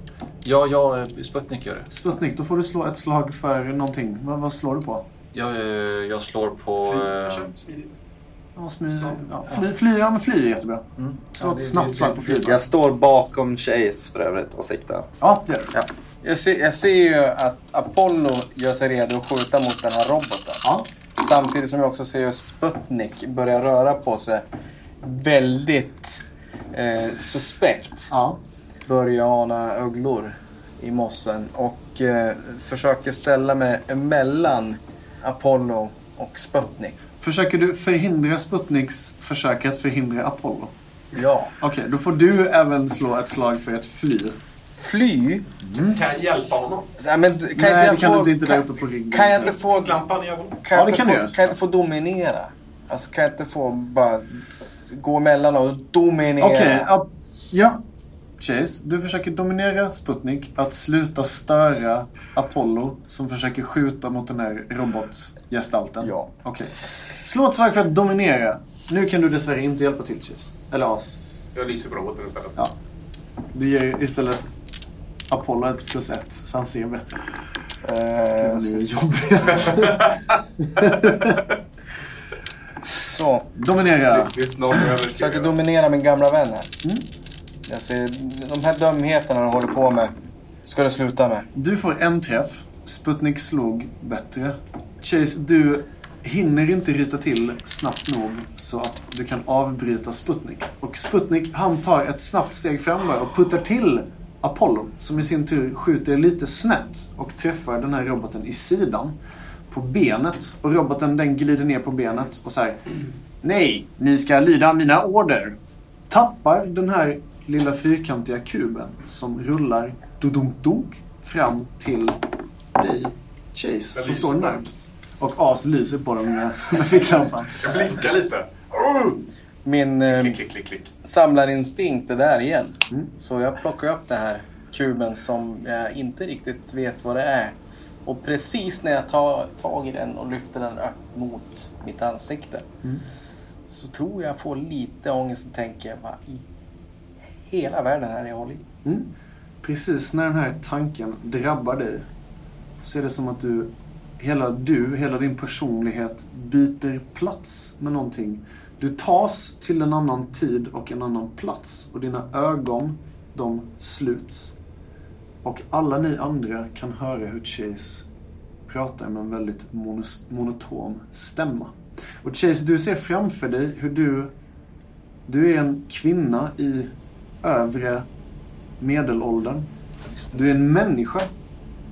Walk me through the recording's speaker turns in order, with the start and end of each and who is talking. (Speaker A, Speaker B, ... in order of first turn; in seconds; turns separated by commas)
Speaker A: 0.4-1.9, Speaker B: 1.9-5.1, Speaker A: 5.3-7.5, Speaker C: 6.8-7.9, Speaker B: 8.6-12.6, Speaker A: 11.0-12.6, Speaker D: 12.4-15.1, Speaker B: 15.2-15.7, Speaker E: 16.2-20.7, Speaker E: 21.2-24.4, Speaker E: 25.0-28.1, Speaker B: 28.1-28.4, Speaker E: 28.9-37.0, Speaker B: 37.2-40.7, Speaker E: 41.1-41.5, Speaker B: 41.6-44.4, Speaker E: 44.8-45.5, Speaker B: 45.6-46.0, Speaker C: 45.8-46.9, Speaker E: 47.0-50.0, Speaker B: 47.5-49.6, Speaker C: 49.7-50.6, Speaker E: 50.6-56.9, Speaker B: 50.7-51.6, Speaker B: 56.4-57.8, Speaker B: 58.4-71.2, Speaker E: 66.0-66.3, Speaker C: 71.5-72.6, Speaker B: 73.5-74.5, Speaker B: 75.3-77.3, Speaker E: 77.8-79.7, Speaker B: 78.4-80.1, Speaker C: 79.5-80.2, Speaker B: 80.6-81.4, Speaker E: 83.1-83.5, Speaker B: 83.6-84.3, Speaker C: 84.1-85.6, Speaker E: 85.0-86.7, Speaker E: 87.7-91.5, Speaker B: 91.5-109.2, Speaker B: 109.7-115.6, Speaker B: 116.1-122.2, Speaker B: 122.8-127.6, Speaker C: 124.0-124.6, Speaker C: 127.6-129.2, Speaker E: 129.7-130.4, Speaker C: 130.1-130.9, Speaker E: 131.0-142.7, Speaker E: 143.7-146.4, Speaker E: 147.4-148.7, Speaker B: 148.8-149.1, Speaker B: 149.6-152.1, Speaker B: 152.8-164.6, Speaker B: 165.4-168.1, Speaker B: 168.7-174.3, Speaker B: 175.3-178.1, Speaker B: 178.8-179.7, Speaker B: 180.3-181.3